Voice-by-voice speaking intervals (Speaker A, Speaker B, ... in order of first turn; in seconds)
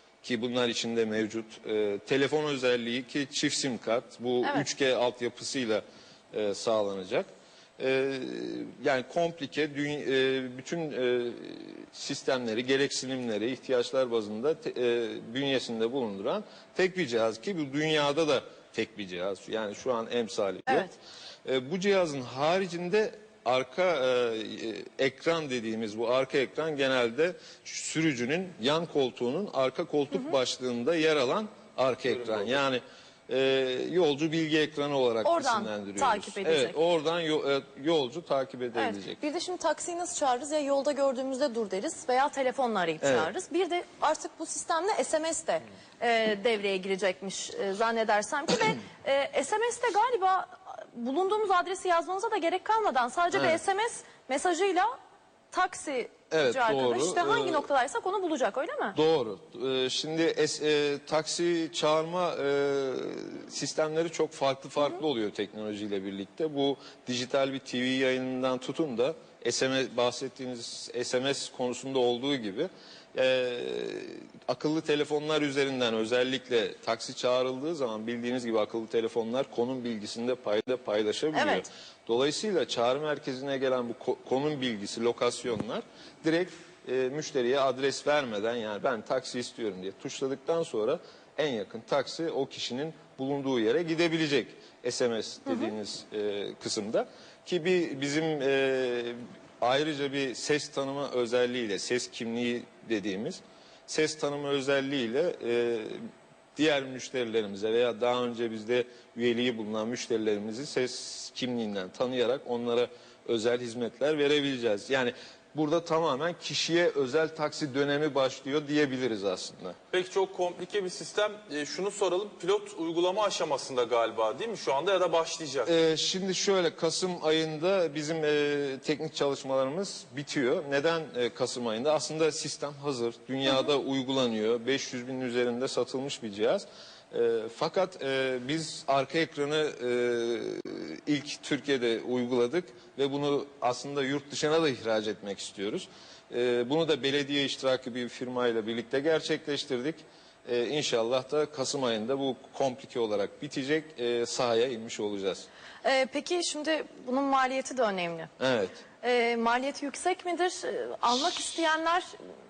Speaker A: 0.2-20.9, 21.4-39.2, 43.0-43.3, 53.3-53.6, 56.3-57.6, 58.9-119.8, 125.7-155.5, 158.4-158.8
Speaker B: 4.4-4.7, 20.7-20.9, 35.2-36.8, 38.8-54.9, 55.5-59.0, 81.3-81.6, 155.8-158.3, 159.0-162.1
Speaker C: 32.0-32.6, 119.9-125.7